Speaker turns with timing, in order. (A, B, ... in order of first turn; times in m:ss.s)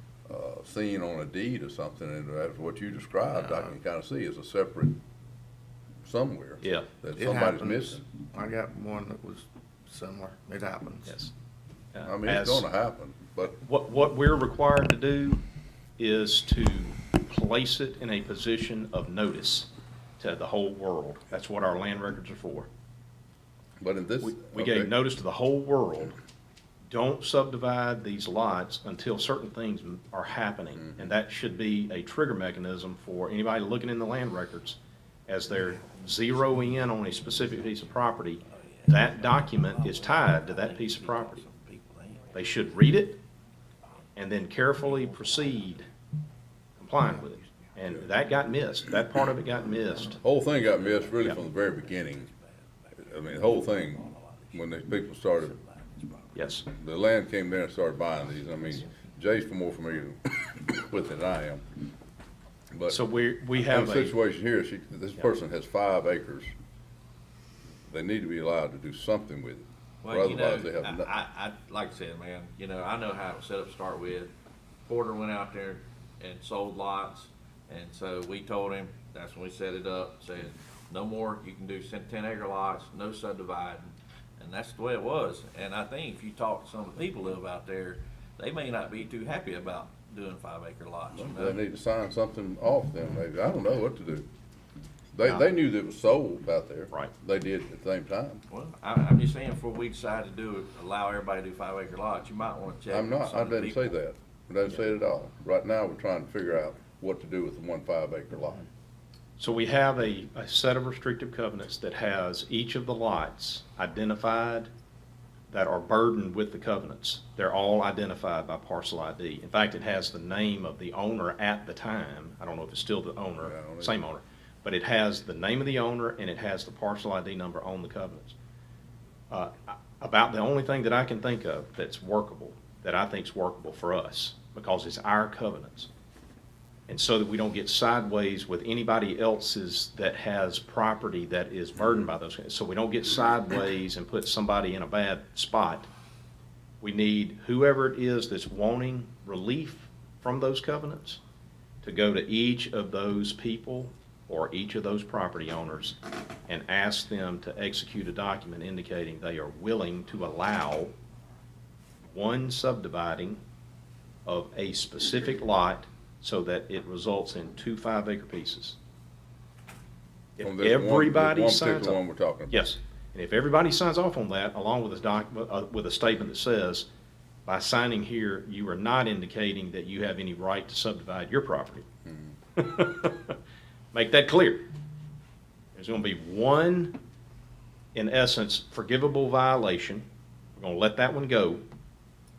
0:00.3-0:05.0 A
0:06.0-0:08.0 A
0:06.6-0:06.9 B
0:07.2-0:11.2 C
0:11.9-0:12.7 B
0:12.0-0:13.6 A
0:13.4-0:15.4 B
0:16.0-0:19.7 B
0:20.2-0:22.7 B
0:23.8-0:24.9 A
0:24.2-0:26.2 B
0:26.9-0:41.4 B
0:30.8-0:31.1 A
0:38.4-0:42.3 D
0:42.3-0:43.2 B
0:44.2-0:45.9 B
0:46.8-0:50.2 B
0:50.2-0:52.3 A
0:50.4-0:54.6 D
0:53.0-0:55.6 A
0:55.4-0:56.3 D
0:56.3-0:56.6 B
0:56.7-1:01.6 A
1:02.7-1:03.0 A
1:02.9-1:04.1 B
1:03.6-1:06.5 A
1:07.9-1:11.1 A
1:10.0-1:14.3 D
1:14.8-1:31.6 D
1:31.1-1:34.3 A
1:35.1-1:38.4 A
1:38.5-1:43.9 D
1:42.9-1:48.6 A
1:49.4-1:54.7 B
1:55.5-2:08.4 B
2:03.4-2:04.0 A
2:09.3-2:15.9 B
2:16.9-2:25.9 B
2:26.8-2:31.2 B
2:31.8-2:36.0 B
2:36.5-2:40.9 B
2:42.1-2:43.4 B
2:44.2-2:48.8 B
2:50.4-2:56.8 B
2:50.4-2:52.6 A
2:57.4-3:01.8 B
3:02.0-3:02.3 A
3:02.6-3:03.4 B
3:03.9-3:04.6 B
3:05.7-3:07.0 B
3:07.9-3:11.6 B